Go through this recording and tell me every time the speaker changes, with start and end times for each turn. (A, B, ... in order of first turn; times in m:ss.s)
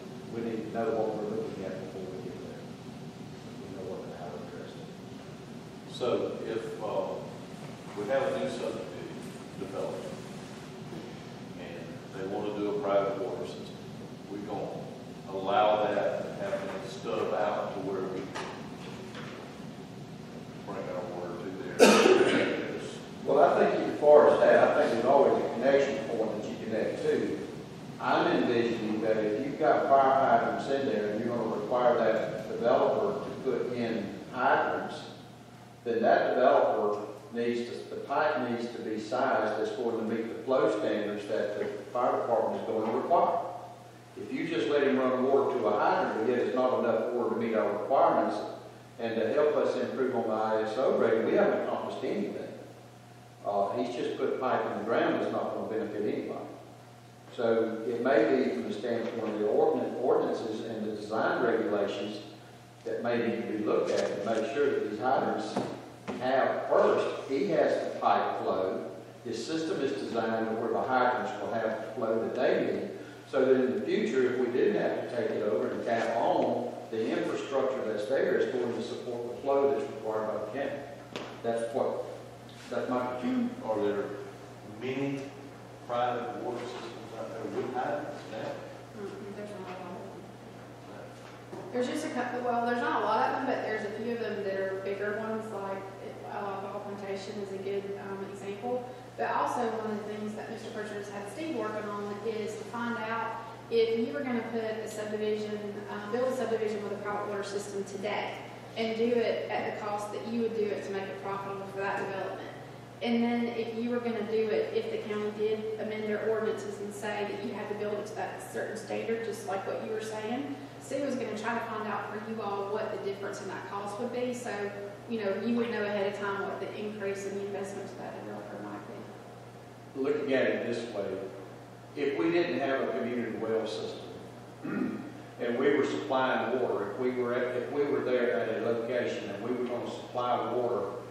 0:00.3-0:02.6 A
0:03.5-0:04.9 A
0:05.9-0:07.2 B
0:07.9-0:10.1 B
0:11.5-0:13.7 B
0:14.2-0:18.3 B
0:20.6-0:23.0 B
0:23.2-0:27.4 A
0:28.0-0:35.1 A
0:35.8-0:43.4 A
0:44.2-0:48.4 A
0:49.0-0:52.6 A
0:53.4-0:56.5 A
0:57.3-1:02.2 A
1:02.8-1:20.8 A
1:21.4-1:22.0 A
1:22.7-1:23.5 A
1:23.6-1:24.1 B
1:24.6-1:25.3 B
1:25.8-1:28.6 B
1:28.9-1:30.3 C
1:31.7-2:09.0 C
2:09.9-2:11.2 A
2:11.9-2:20.9 A